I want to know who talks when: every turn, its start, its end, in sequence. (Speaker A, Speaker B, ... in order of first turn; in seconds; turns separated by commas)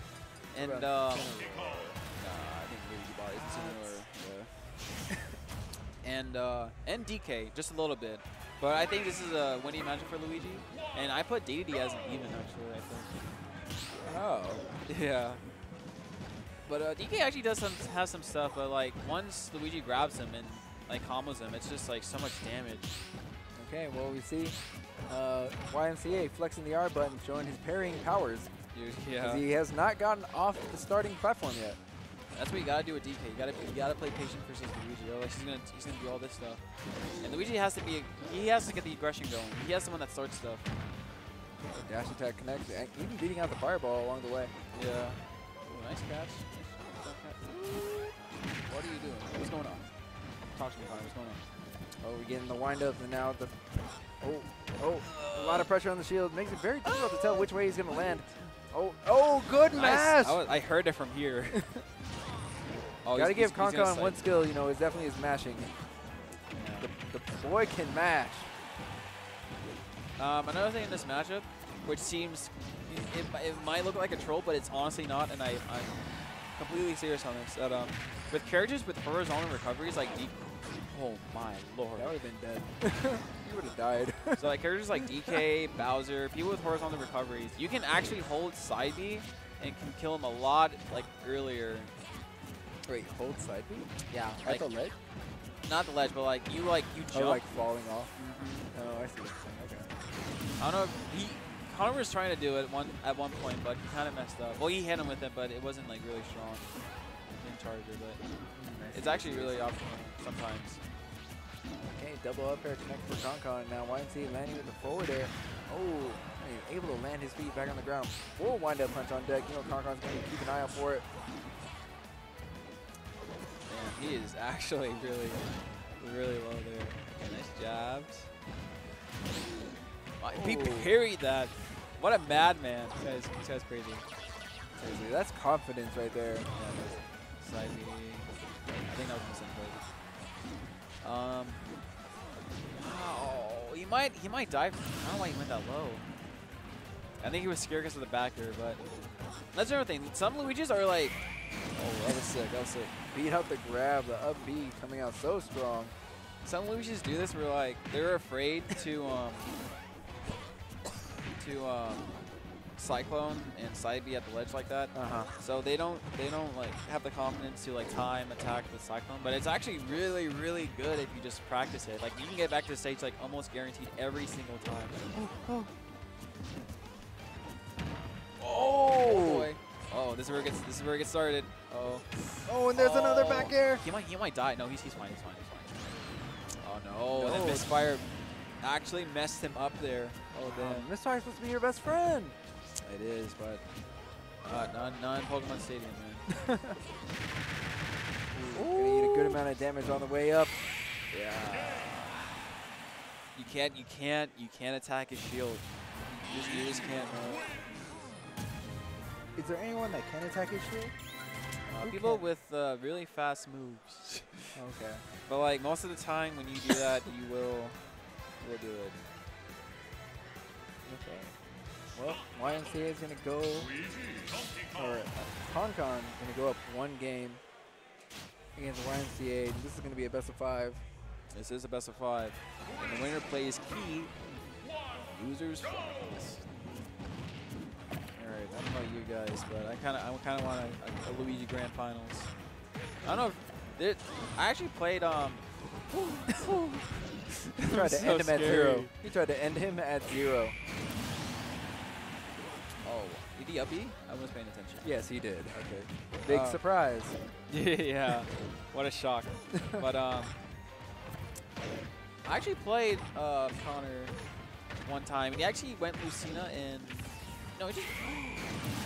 Speaker A: 0.5-1.4, Speaker B: 0.5-2.0, Speaker A: 2.2-4.6, Speaker B: 3.3-4.0, Speaker B: 5.1-5.4, Speaker A: 6.0-13.2, Speaker B: 14.0-14.7, Speaker A: 14.8-15.4, Speaker A: 16.6-23.0, Speaker B: 23.5-24.6, Speaker B: 25.1-28.5, Speaker A: 28.7-29.4, Speaker B: 29.2-31.8, Speaker A: 32.3-36.6, Speaker A: 37.2-40.7, Speaker B: 41.7-44.5, Speaker A: 44.7-49.9, Speaker A: 50.5-51.4, Speaker B: 52.0-53.6, Speaker B: 54.2-60.4, Speaker A: 55.1-55.7, Speaker A: 56.8-57.4, Speaker A: 59.7-61.6, Speaker B: 61.5-61.8, Speaker A: 63.0-64.2, Speaker B: 63.1-65.7, Speaker A: 66.5-66.9, Speaker B: 66.8-68.5, Speaker A: 70.2-76.0, Speaker A: 76.5-82.2, Speaker B: 81.9-84.4, Speaker A: 84.3-91.9, Speaker B: 84.9-85.4, Speaker B: 92.8-93.9, Speaker A: 94.1-94.7, Speaker B: 94.4-95.0, Speaker A: 95.6-97.4, Speaker B: 97.1-98.1, Speaker A: 98.2-98.7, Speaker B: 98.7-100.0, Speaker A: 100.6-106.7, Speaker A: 107.3-108.2, Speaker B: 108.5-109.8, Speaker A: 108.9-110.8, Speaker B: 111.9-121.0, Speaker A: 123.7-128.3, Speaker A: 130.2-134.0, Speaker B: 130.3-130.9, Speaker B: 134.8-136.5, Speaker A: 136.5-139.8, Speaker A: 141.0-141.7, Speaker A: 142.7-146.1, Speaker A: 147.2-148.8, Speaker A: 149.5-151.2, Speaker A: 151.7-152.9, Speaker B: 153.1-155.9, Speaker A: 156.4-159.5, Speaker A: 161.3-162.1, Speaker A: 162.8-175.1, Speaker B: 164.9-165.3, Speaker B: 175.1-175.7, Speaker A: 178.4-182.1, Speaker B: 178.4-179.5, Speaker B: 182.4-183.8, Speaker A: 182.7-185.8, Speaker A: 186.6-188.1, Speaker B: 187.1-187.7, Speaker A: 188.6-190.9, Speaker B: 190.4-192.3, Speaker A: 192.8-193.6, Speaker A: 194.4-196.3, Speaker B: 196.3-196.8, Speaker A: 198.3-199.4, Speaker B: 198.5-200.6, Speaker A: 201.1-202.5, Speaker A: 203.3-207.6, Speaker B: 209.3-210.9, Speaker A: 211.7-214.4, Speaker B: 211.8-212.3, Speaker B: 214.5-215.1, Speaker A: 215.3-217.8, Speaker A: 218.4-219.0, Speaker B: 220.8-221.3, Speaker B: 221.9-223.7, Speaker B: 224.7-227.4, Speaker B: 228.5-230.8, Speaker A: 231.3-234.2, Speaker A: 234.9-236.5, Speaker A: 238.1-242.3, Speaker A: 243.0-248.9, Speaker B: 247.7-250.6, Speaker A: 252.8-254.9, Speaker B: 254.8-257.2, Speaker A: 256.3-256.6, Speaker A: 257.5-260.3, Speaker B: 259.5-259.8, Speaker A: 262.2-264.1, Speaker A: 264.8-268.6